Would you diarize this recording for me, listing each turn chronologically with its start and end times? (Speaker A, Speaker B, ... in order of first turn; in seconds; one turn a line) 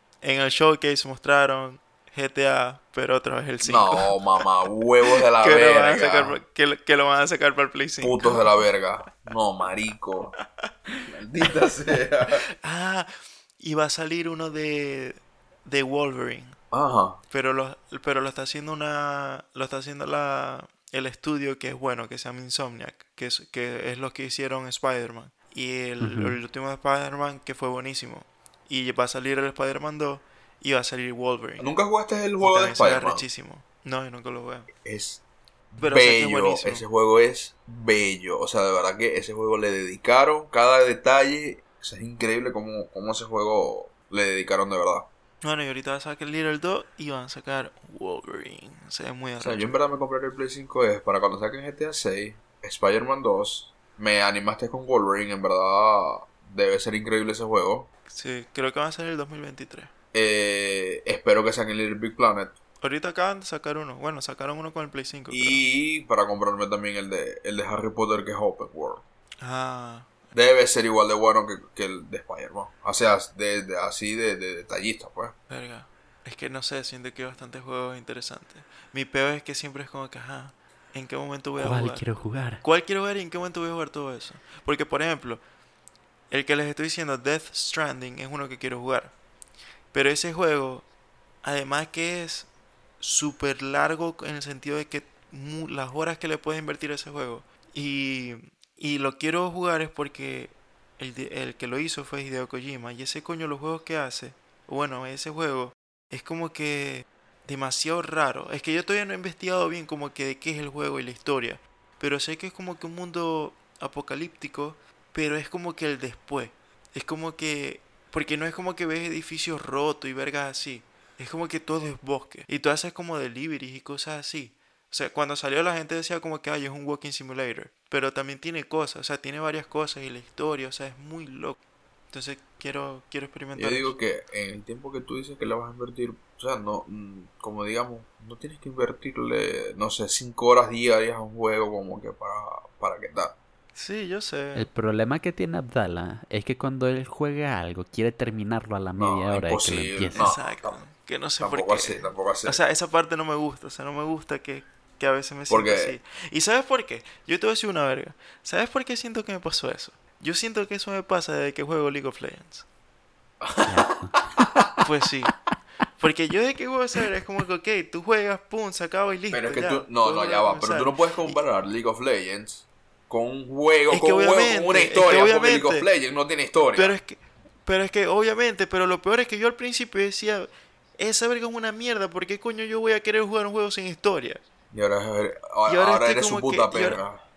Speaker A: 0.2-4.2
Speaker B: 3.6-6.4
Speaker A: 5.3-8.3
Speaker B: 8.0-10.3
Speaker B: 11.1-12.4
Speaker A: 12.6-16.6
Speaker B: 16.7-17.2
Speaker A: 17.3-31.7
Speaker C: 26.0-26.4
Speaker B: 31.6-33.2
Speaker A: 32.4-34.7
Speaker B: 34.8-45.1
Speaker A: 35.8-36.8
Speaker A: 45.4-49.7
Speaker B: 49.4-57.9
Speaker A: 58.1-59.9
Speaker B: 60.1-62.5
Speaker A: 62.8-65.6
Speaker B: 65.3-69.0
Speaker A: 69.4-70.3
Speaker B: 70.3-75.3
Speaker A: 75.5-82.0
Speaker C: 81.6-82.6
Speaker A: 82.6-85.4
Speaker A: 86.3-89.1
Speaker A: 89.9-90.8
Speaker A: 91.4-92.5
Speaker A: 93.0-131.6
Speaker A: 132.1-134.0
Speaker B: 133.5-143.4
Speaker A: 143.7-144.7
Speaker C: 144.5-150.3
Speaker B: 149.0-150.8
Speaker A: 150.1-162.7
Speaker B: 151.4-152.6
Speaker B: 155.5-155.9
Speaker B: 163.4-163.8
Speaker C: 163.7-164.2
Speaker B: 164.4-164.7
Speaker A: 164.8-165.3
Speaker A: 166.0-171.4
Speaker B: 169.3-177.0
Speaker A: 173.9-175.9
Speaker A: 176.7-184.4
Speaker B: 184.7-187.2
Speaker A: 185.7-187.0